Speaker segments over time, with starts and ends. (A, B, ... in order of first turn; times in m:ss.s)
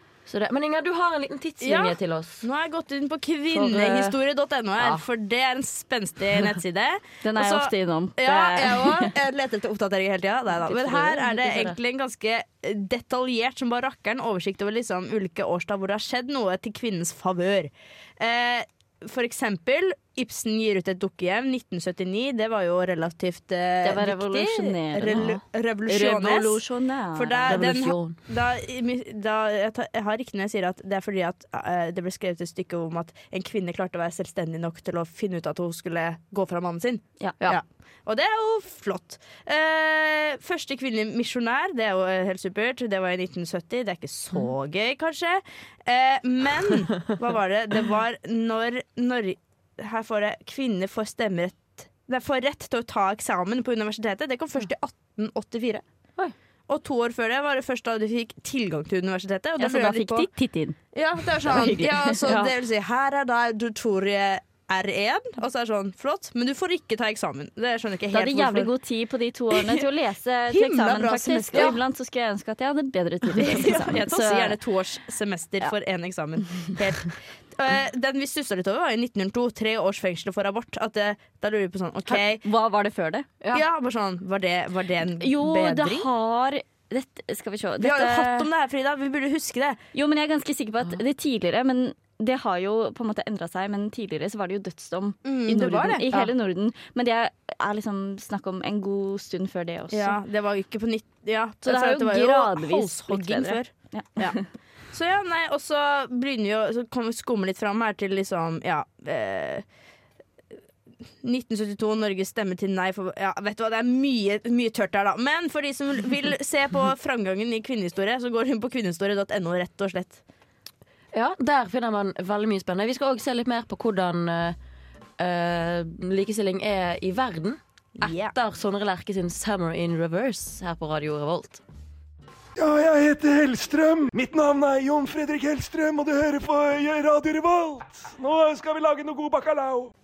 0:00.2-0:02.5 A
0:01.6-0:26.6 B
0:03.5-0:04.2 A
0:04.8-0:05.0 A
0:07.2-0:09.1 C
0:10.6-0:11.8 A
0:23.8-0:27.6 C
0:27.1-0:55.8 B
0:27.5-0:28.1 A
0:56.7-1:00.3 B
0:59.6-1:00.8 C
1:00.9-1:08.7 B
1:01.4-1:02.5 C
1:08.1-1:14.6 C
1:09.5-1:09.8 B
1:10.5-1:11.8 B
1:13.4-1:22.4 B
1:22.1-1:23.2 C
1:23.4-1:23.6 A
1:23.5-1:26.1 B
1:25.2-1:28.5 C
1:27.8-1:29.8 B
1:29.9-1:40.2 C
1:35.2-1:36.3 B
1:39.9-1:44.4 B
1:41.6-1:44.4 C
1:44.9-1:49.6 B
1:51.2-2:00.2 B
2:01.1-2:04.6 A
2:05.2-2:11.6 A
2:08.0-2:08.3 B
2:12.6-2:19.9 D